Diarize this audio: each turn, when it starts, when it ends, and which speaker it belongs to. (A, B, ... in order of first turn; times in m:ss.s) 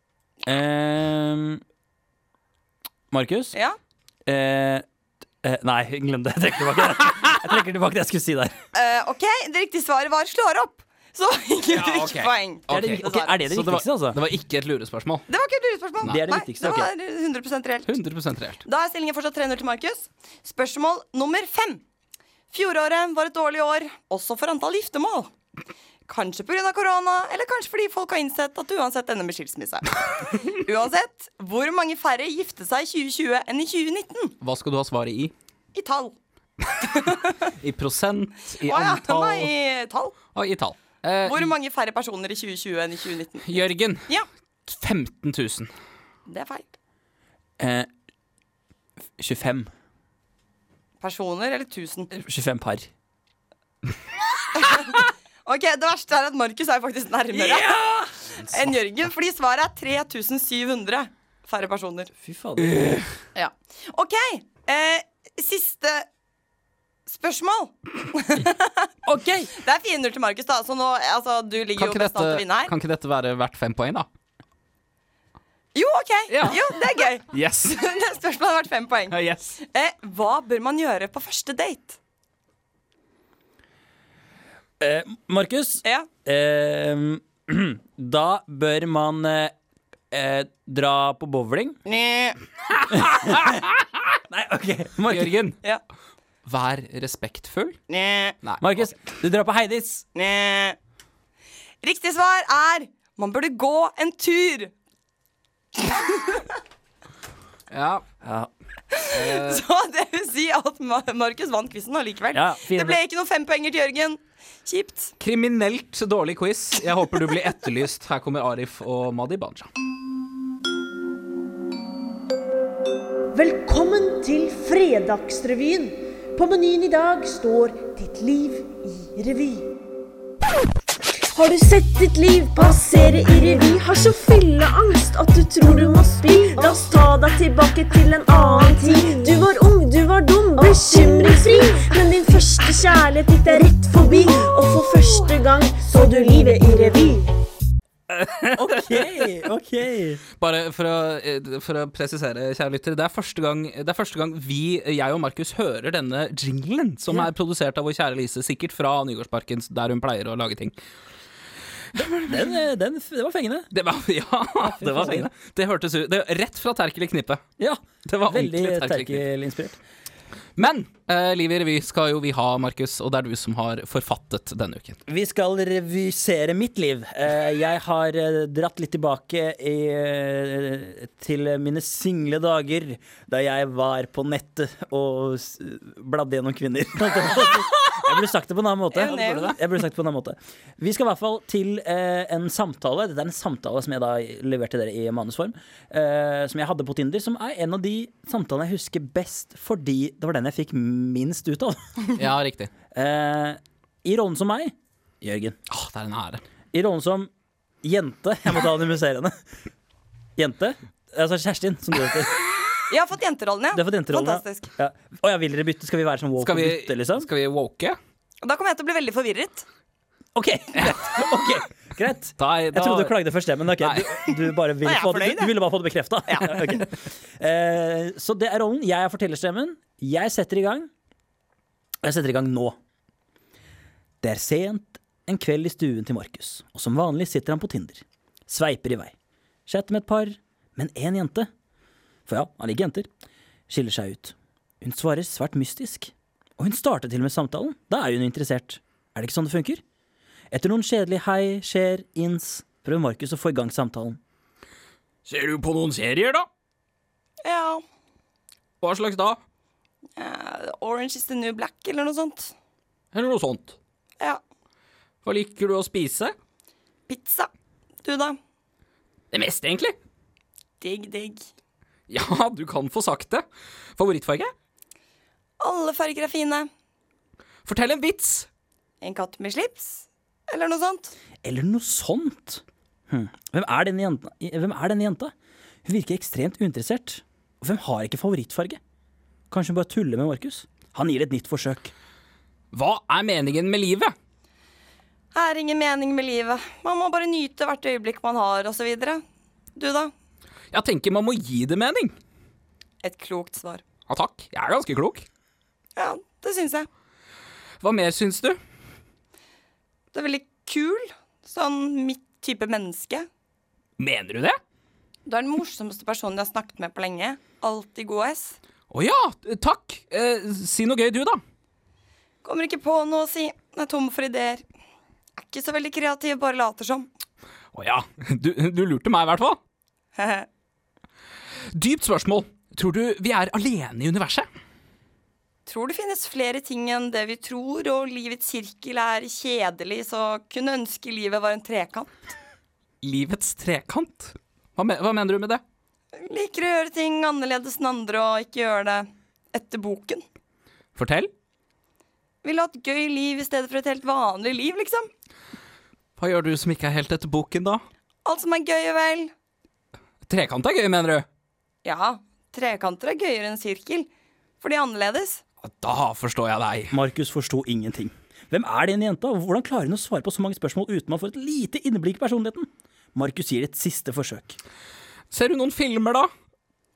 0:00.4-0:01.6 A
0:03.1-0:03.5 A
0:04.2-0:04.8 A
0:05.4-0:08.5 A
0:08.7-0:13.4 B
0:11.7-0:15.3 C
0:12.7-0:14.2 A
0:15.3-0:18.0 B
0:16.0-0:16.9 A
0:17.9-0:18.6 C
0:18.6-0:21.8 B
0:22.5-0:25.3 B
0:26.1-0:34.3 B
0:34.4-0:35.3 C
0:35.7-0:36.2 B
0:36.8-0:37.5 B
0:37.5-0:39.5 C
0:38.6-0:40.2 B
0:40.3-0:41.5 C
0:41.2-0:44.3 B
0:43.4-0:44.1 C
0:44.7-0:45.7 C
0:46.3-0:46.6 B
0:47.6-0:47.9 A
0:49.2-0:49.7 A
0:51.0-0:52.1 B
0:52.1-0:52.9 A
0:54.5-0:57.8 B
0:57.3-0:58.1 A
0:58.4-1:02.1 B
1:02.2-1:03.0 A
1:03.3-1:06.1 B
1:07.1-1:08.9 B
1:09.0-1:09.5 A
1:09.5-1:12.7 B
1:11.8-1:14.1 C
1:15.7-1:22.0 B
1:16.3-1:16.6 C
1:17.3-1:17.8 C
1:19.1-1:19.5 C
1:24.8-1:29.5 A
1:30.1-1:31.8 A
1:31.8-1:32.4 B
1:32.7-1:34.0 C
1:32.9-1:33.6 A
1:34.3-1:35.4 A
1:35.1-1:35.6 C
1:36.4-1:37.8 C
1:37.9-1:38.4 B
1:38.4-1:38.9 C
1:38.6-1:40.0 A
1:40.1-1:40.8 B
1:41.8-1:44.7 B
1:45.8-1:46.5 B
1:47.7-1:48.0 C
1:48.2-1:48.5 A
1:48.9-1:55.1 B
1:49.1-1:49.6 C
1:52.3-1:53.0 A
1:55.2-1:59.7 C
2:03.3-2:09.7 D
2:11.3-2:27.3 D
2:28.1-2:29.3 C
2:28.5-2:30.2 A
2:30.4-2:40.7 C
2:41.9-2:42.6 C
2:42.0-2:43.7 A
2:43.7-2:47.4 C
2:44.6-2:45.3 A
2:47.6-2:49.8 A
2:48.0-2:49.2 C
2:50.6-2:55.0 C
2:55.1-3:22.1 A
3:08.9-3:09.6 B
3:22.2-3:22.7 C
3:22.9-3:25.6 A
3:25.7-3:26.4 C
3:26.7-3:27.3 A
3:27.8-3:29.3 A
3:30.4-3:32.6 A
3:32.9-3:34.7 B
3:33.7-3:37.3 A
3:36.4-3:38.0 C
3:38.4-3:39.6 B
3:40.3-3:50.9 A
3:42.4-3:43.2 C
3:43.8-3:44.1 C
3:44.8-3:45.5 B
3:46.3-3:46.8 B
3:52.0-3:52.8 A
3:54.2-3:59.1 A
3:59.7-4:01.5 A
4:02.3-4:03.1 A
4:03.7-4:09.8 A
4:10.5-4:14.2 A
4:15.2-4:16.5 C
4:17.4-4:17.8 B
4:18.8-4:19.4 C
4:20.2-4:22.5 B
4:23.1-4:23.8 C
4:25.2-4:26.3 C
4:27.1-4:27.5 B
4:28.0-4:28.4 B
4:29.3-4:30.0 C
4:30.8-4:31.5 B
4:32.1-4:33.4 C
4:34.0-4:34.5 C
4:35.6-4:36.7 B
4:37.6-4:38.5 C
4:39.0-4:41.1 B
4:41.4-4:45.3 A
4:45.8-4:48.8 A
4:49.5-4:51.9 A
4:52.7-4:54.1 C
4:55.3-4:59.2 B
4:59.8-5:00.1 B
5:00.7-5:02.1 C
5:03.0-5:03.8 B
5:04.1-5:05.2 C
5:06.0-5:06.9 B
5:07.8-5:08.6 C
5:10.1-5:13.3 B
5:14.0-5:14.6 C
5:15.2-5:18.6 B
5:18.9-5:21.4 C
5:22.4-5:24.6 B
5:25.4-5:27.1 B
5:27.7-5:29.6 C
5:30.2-5:30.5 B
5:31.7-5:34.5 C
5:35.6-5:42.1 B
5:43.0-5:45.6 C
5:46.2-5:50.2 B
5:50.9-5:51.3 C
5:52.4-5:55.1 B
5:56.2-5:57.8 C
5:58.2-5:59.3 B
6:00.2-6:01.2 C
6:01.8-6:04.1 B
6:04.6-6:05.4 B
6:05.6-6:06.9 C
6:06.9-6:14.6 A
6:15.3-6:16.3 C